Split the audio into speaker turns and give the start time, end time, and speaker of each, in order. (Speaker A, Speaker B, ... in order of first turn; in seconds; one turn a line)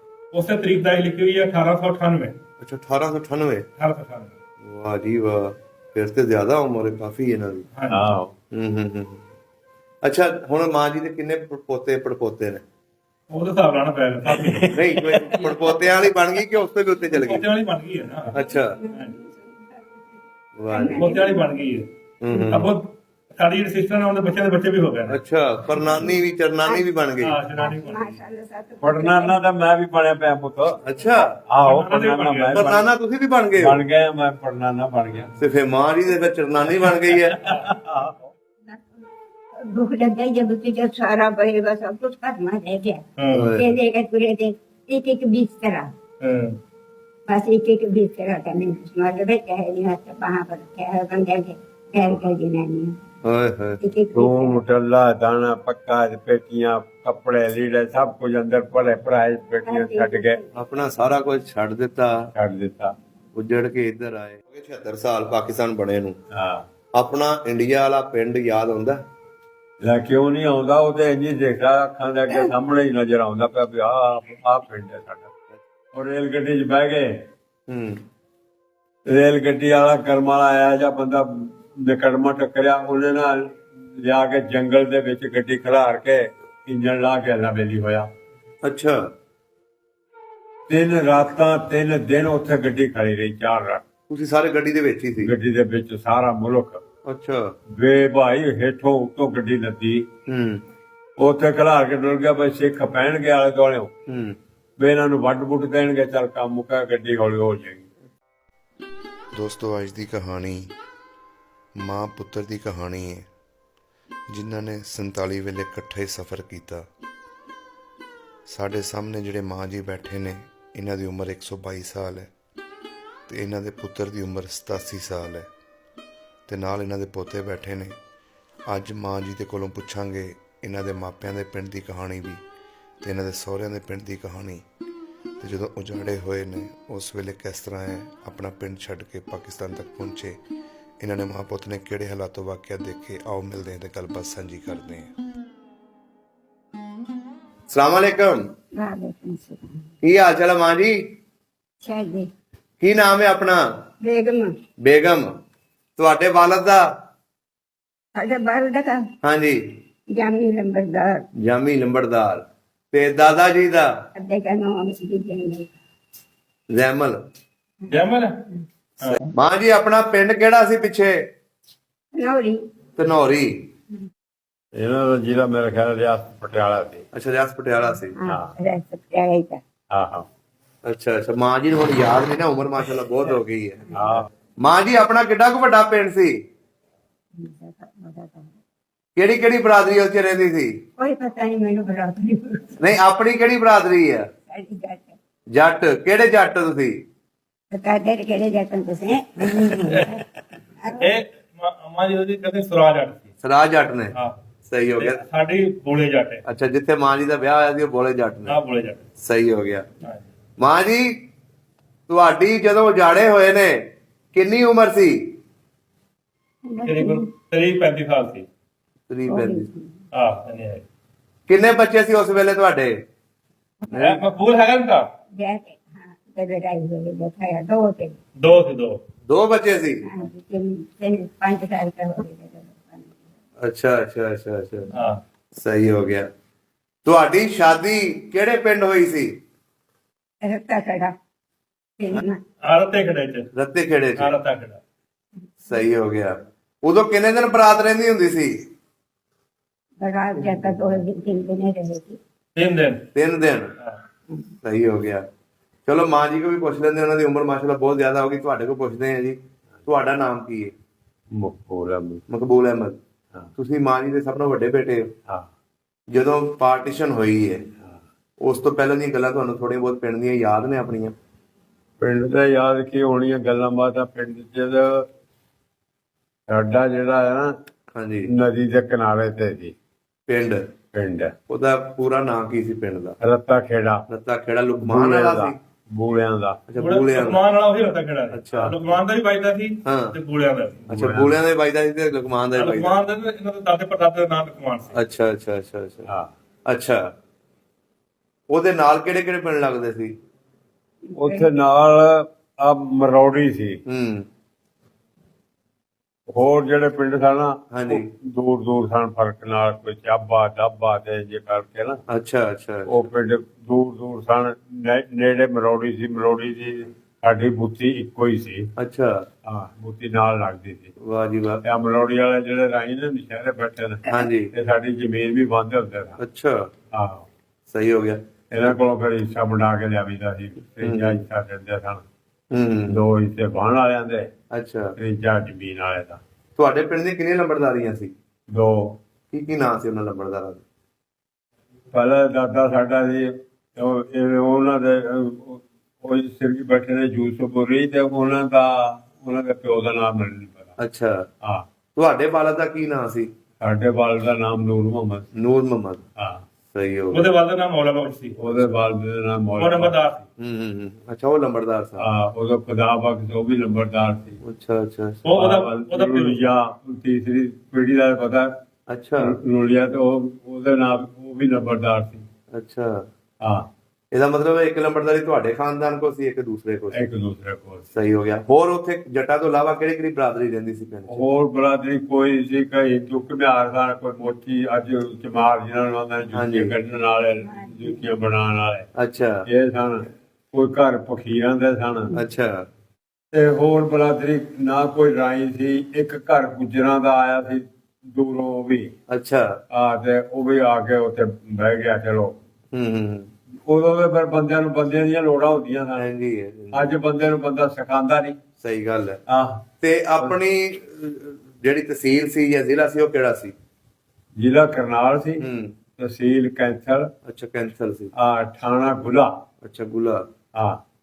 Speaker A: 0.3-2.4
Speaker B: 2.6-3.7
Speaker A: 3.8-4.3
Speaker B: 4.6-7.7
Speaker A: 7.8-8.0
Speaker C: 7.9-8.3
Speaker B: 8.5-9.2
Speaker B: 10.0-12.6
Speaker A: 13.3-14.7
Speaker C: 14.4-15.4
Speaker B: 14.7-17.5
Speaker A: 15.3-15.7
Speaker A: 17.1-18.3
Speaker D: 18.3-19.8
Speaker B: 18.4-18.8
Speaker A: 18.9-19.2
Speaker B: 20.6-21.1
Speaker D: 20.7-21.5
Speaker A: 20.9-25.2
Speaker B: 22.2-22.7
Speaker B: 25.1-27.4
Speaker A: 27.2-28.1
Speaker D: 27.6-29.4
Speaker C: 28.8-30.8
Speaker B: 30.8-31.4
Speaker C: 31.5-32.9
Speaker A: 31.6-32.8
Speaker B: 32.5-33.8
Speaker C: 33.6-35.3
Speaker B: 35.4-37.5
Speaker C: 37.4-38.2
Speaker D: 38.7-39.0
Speaker D: 39.6-45.9
Speaker A: 43.2-43.6
Speaker B: 43.3-43.7
Speaker A: 46.2-46.6
Speaker D: 47.3-53.0
Speaker B: 53.2-53.8
Speaker D: 53.8-54.6
Speaker C: 54.1-60.4
Speaker D: 59.7-60.5
Speaker B: 60.5-62.3
Speaker C: 62.3-62.9
Speaker B: 63.3-66.2
Speaker C: 66.3-66.7
Speaker B: 66.9-69.0
Speaker C: 69.8-75.3
Speaker C: 75.9-77.2
Speaker B: 77.7-78.0
Speaker C: 79.1-88.1
Speaker B: 88.6-89.1
Speaker C: 90.7-93.8
Speaker B: 94.1-95.3
Speaker C: 95.2-96.8
Speaker B: 97.0-97.6
Speaker C: 97.8-100.1
Speaker B: 100.3-100.6
Speaker C: 101.2-103.9
Speaker B: 104.1-104.4
Speaker C: 104.8-107.9
Speaker E: 109.3-110.8
Speaker E: 111.8-113.3
Speaker E: 114.3-116.9
Speaker E: 118.5-122.3
Speaker E: 123.3-125.5
Speaker E: 126.5-128.0
Speaker E: 128.7-132.4
Speaker E: 133.0-134.6
Speaker E: 135.4-140.4
Speaker E: 141.0-145.1
Speaker B: 147.7-148.4
Speaker D: 148.8-149.7
Speaker B: 150.0-151.0
Speaker D: 151.8-152.3
Speaker B: 152.8-153.6
Speaker D: 154.0-154.5
Speaker B: 154.8-155.3
Speaker B: 156.0-156.9
Speaker D: 158.2-159.1
Speaker B: 159.2-159.6
Speaker D: 160.1-161.3
Speaker B: 161.4-163.9
Speaker D: 164.2-165.7
Speaker B: 166.7-167.2
Speaker A: 167.9-168.3
Speaker B: 169.1-171.2
Speaker D: 172.1-172.6
Speaker B: 173.0-173.7
Speaker C: 174.8-177.1
Speaker B: 177.1-178.2
Speaker D: 178.2-179.6
Speaker C: 178.3-178.5
Speaker C: 179.9-180.3
Speaker B: 180.8-183.9
Speaker C: 183.9-184.3
Speaker B: 184.6-186.3
Speaker D: 187.4-188.6
Speaker B: 189.2-190.7
Speaker D: 191.0-192.8
Speaker B: 192.8-194.3
Speaker D: 194.4-195.2
Speaker B: 195.5-197.0
Speaker D: 197.7-200.2
Speaker A: 199.8-200.2
Speaker D: 200.8-201.2
Speaker A: 200.9-203.3
Speaker B: 203.4-204.2
Speaker B: 204.7-205.2
Speaker A: 205.0-206.4
Speaker B: 206.4-208.6
Speaker A: 208.5-209.0
Speaker B: 209.2-209.9
Speaker B: 210.6-211.3
Speaker B: 212.1-215.3
Speaker D: 216.7-217.3
Speaker A: 216.8-218.5
Speaker B: 219.1-219.7
Speaker D: 219.3-220.0
Speaker A: 220.1-220.8
Speaker B: 221.5-223.0
Speaker B: 223.9-224.2
Speaker A: 223.9-225.1
Speaker D: 225.4-228.2
Speaker A: 228.4-229.0
Speaker B: 229.3-230.0
Speaker D: 230.0-233.2
Speaker B: 233.6-234.9
Speaker A: 234.9-235.2
Speaker B: 235.6-236.3
Speaker B: 237.1-239.3
Speaker D: 240.4-241.1
Speaker D: 242.0-242.4
Speaker A: 242.7-243.5
Speaker B: 243.5-244.4
Speaker A: 244.2-244.8
Speaker B: 245.7-248.6
Speaker D: 250.0-252.2
Speaker A: 252.6-253.1
Speaker B: 253.2-253.7
Speaker B: 254.6-255.3
Speaker B: 255.9-260.7
Speaker C: 261.3-262.2
Speaker B: 262.3-263.0
Speaker B: 263.6-265.1
Speaker B: 266.1-267.7
Speaker B: 268.4-271.1
Speaker C: 272.0-275.1
Speaker C: 276.5-277.5
Speaker B: 277.9-278.3
Speaker C: 278.3-279.7
Speaker B: 280.3-280.7
Speaker C: 280.9-281.4
Speaker B: 281.5-283.2
Speaker C: 283.2-284.0
Speaker B: 284.1-285.6
Speaker C: 284.8-286.6
Speaker B: 286.7-287.4
Speaker A: 286.8-290.9
Speaker B: 288.3-288.8
Speaker B: 289.9-290.2
Speaker C: 290.9-291.4
Speaker B: 290.9-293.0
Speaker A: 292.5-295.0
Speaker B: 294.9-296.1
Speaker B: 296.7-297.1
Speaker B: 298.5-300.1
Speaker D: 301.1-301.5
Speaker C: 301.1-303.8
Speaker B: 303.9-304.3
Speaker C: 306.3-312.0
Speaker B: 307.7-308.1
Speaker B: 312.1-313.0
Speaker C: 312.9-318.7
Speaker B: 318.8-319.3
Speaker C: 319.4-320.9
Speaker B: 321.0-321.6
Speaker C: 321.6-326.2
Speaker B: 324.1-324.5
Speaker B: 326.2-326.7
Speaker C: 326.9-327.3
Speaker B: 327.7-328.2
Speaker C: 328.5-332.0
Speaker B: 330.8-331.2
Speaker B: 332.5-333.0
Speaker C: 332.9-334.3
Speaker B: 334.5-334.9
Speaker C: 335.0-336.2
Speaker B: 336.6-338.1
Speaker C: 338.5-339.0
Speaker B: 339.3-340.6
Speaker C: 341.9-350.8
Speaker B: 350.8-351.3
Speaker B: 351.9-353.3
Speaker C: 353.6-355.3
Speaker B: 355.4-356.0
Speaker C: 356.2-356.4
Speaker B: 356.7-357.3
Speaker A: 357.1-358.6
Speaker C: 358.4-359.9
Speaker A: 359.6-360.2
Speaker B: 360.4-362.1
Speaker C: 362.0-364.4
Speaker B: 364.4-365.2
Speaker A: 365.2-366.4
Speaker C: 365.3-368.5
Speaker B: 368.9-369.4
Speaker C: 369.2-372.3
Speaker B: 372.5-373.1
Speaker C: 373.4-373.7
Speaker B: 374.1-377.1
Speaker C: 376.9-377.9
Speaker B: 377.9-381.2
Speaker C: 381.1-388.9
Speaker B: 386.4-386.7
Speaker B: 388.9-389.5
Speaker C: 389.5-392.2
Speaker B: 392.1-392.7
Speaker C: 393.3-398.9
Speaker B: 399.1-399.6
Speaker C: 399.7-402.4
Speaker B: 402.7-403.3
Speaker C: 403.7-406.1
Speaker B: 406.0-406.9
Speaker C: 406.7-408.4
Speaker B: 408.6-409.2
Speaker C: 409.3-409.7
Speaker B: 409.8-413.5
Speaker C: 414.4-415.4
Speaker B: 415.4-415.7
Speaker C: 416.0-417.1
Speaker B: 417.2-418.1
Speaker C: 418.1-419.3
Speaker B: 419.6-420.3
Speaker C: 420.5-420.8